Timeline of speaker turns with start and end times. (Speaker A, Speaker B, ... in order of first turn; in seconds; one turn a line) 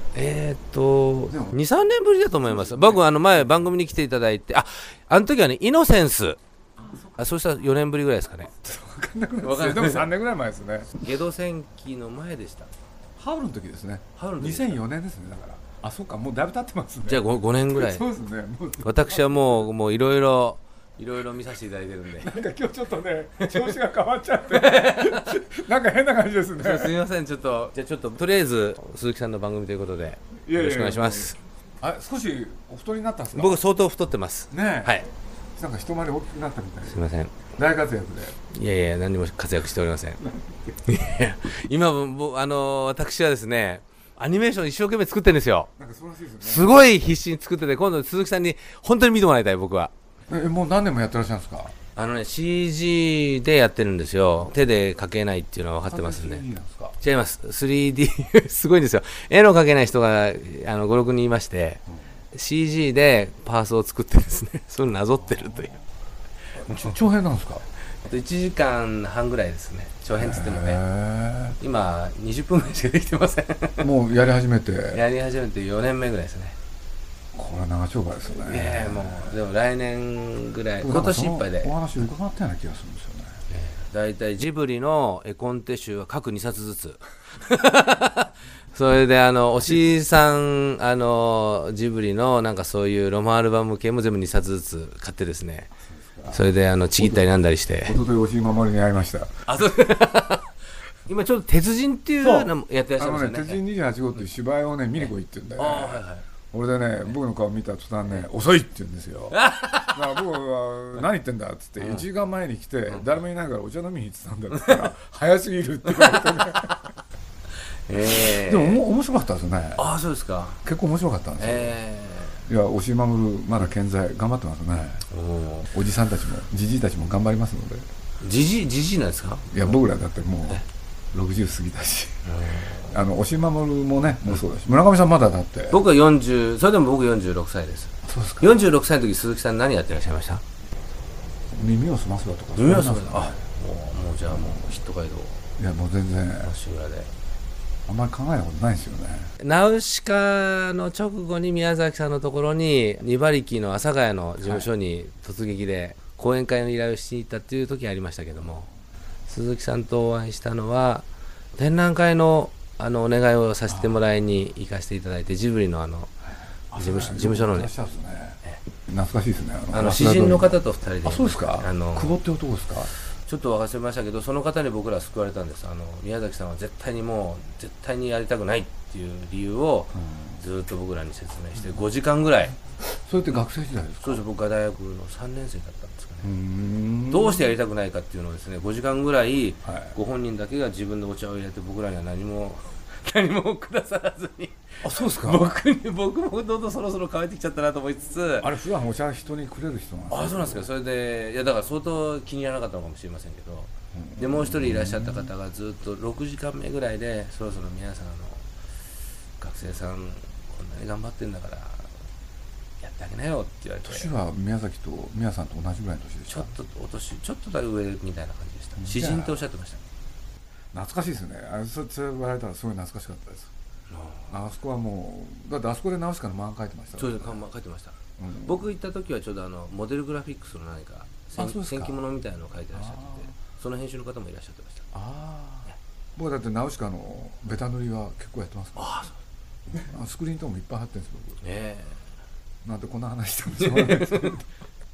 Speaker A: 0.1-6.4
Speaker B: 1.3-1.6
Speaker B: 2.6-3.0
Speaker A: 6.9-8.5
Speaker B: 8.5-11.0
Speaker A: 9.4-10.1
Speaker A: 10.9-12.7
Speaker B: 13.2-19.6
Speaker A: 14.2-14.8
Speaker A: 17.1-18.1
Speaker A: 18.8-22.4
Speaker B: 22.2-27.0
Speaker A: 23.4-23.8
Speaker A: 24.5-25.4
Speaker A: 26.6-31.4
Speaker B: 30.4-33.6
Speaker A: 33.3-35.1
Speaker B: 34.5-37.0
Speaker A: 36.8-37.4
Speaker B: 37.5-38.4
Speaker A: 38.5-40.2
Speaker B: 40.2-40.7
Speaker A: 40.8-45.7
Speaker B: 45.8-46.8
Speaker A: 46.4-49.9
Speaker B: 50.3-51.7
Speaker A: 51.9-56.4
Speaker B: 55.9-57.0
Speaker A: 57.0-61.8
Speaker A: 62.3-65.8
Speaker B: 66.6-67.6
Speaker A: 66.7-67.0
Speaker A: 68.0-70.8
Speaker B: 70.2-71.6
Speaker A: 71.6-73.9
Speaker B: 73.8-75.0
Speaker A: 74.9-76.5
Speaker B: 77.3-79.3
Speaker A: 78.4-81.7
Speaker B: 80.8-83.4
Speaker A: 83.5-95.7
Speaker B: 95.9-96.4
Speaker A: 96.3-98.0
Speaker B: 97.0-97.3
Speaker B: 97.8-99.4
Speaker A: 99.5-100.5
Speaker A: 101.1-103.6
Speaker B: 102.2-116.9
Speaker A: 105.0-106.2
Speaker A: 109.3-110.0
Speaker A: 111.8-112.0
Speaker A: 112.9-113.2
Speaker A: 114.5-114.9
Speaker A: 115.9-116.3
Speaker A: 117.9-118.8
Speaker B: 118.1-119.9
Speaker A: 119.8-120.6
Speaker B: 120.6-121.8
Speaker A: 121.4-122.4
Speaker B: 122.5-125.0
Speaker A: 125.1-125.7
Speaker B: 125.7-127.8
Speaker A: 128.2-129.8
Speaker B: 129.5-132.2
Speaker A: 132.2-132.9
Speaker B: 132.8-135.8
Speaker A: 135.7-140.4
Speaker B: 138.0-138.7
Speaker B: 141.5-143.4
Speaker A: 142.6-145.5
Speaker B: 144.3-144.7
Speaker B: 145.6-146.5
Speaker A: 146.4-147.1
Speaker B: 147.9-149.3
Speaker A: 149.4-158.7
Speaker B: 154.4-154.7
Speaker A: 159.3-166.1
Speaker B: 163.7-163.9
Speaker B: 166.7-168.4
Speaker A: 166.7-167.7
Speaker B: 168.9-172.9
Speaker A: 169.7-172.2
Speaker A: 173.2-182.6
Speaker B: 179.9-180.4
Speaker B: 182.8-184.2
Speaker A: 184.0-186.3
Speaker B: 186.2-187.5
Speaker A: 187.1-198.5
Speaker B: 189.6-189.9
Speaker B: 194.8-195.5
Speaker B: 198.4-200.7
Speaker A: 200.1-208.5
Speaker B: 203.9-205.3
Speaker A: 209.4-211.9
Speaker A: 212.8-214.2
Speaker B: 213.8-216.5
Speaker A: 216.3-219.8
Speaker B: 218.8-219.5
Speaker B: 220.7-223.5
Speaker A: 223.9-224.3
Speaker B: 224.3-227.4
Speaker A: 226.9-234.8
Speaker B: 228.2-228.6
Speaker B: 231.3-232.0
Speaker B: 232.7-233.3
Speaker B: 234.9-239.0
Speaker A: 238.8-239.1
Speaker B: 239.7-241.4
Speaker A: 241.4-242.0
Speaker B: 242.6-244.4
Speaker A: 243.6-244.4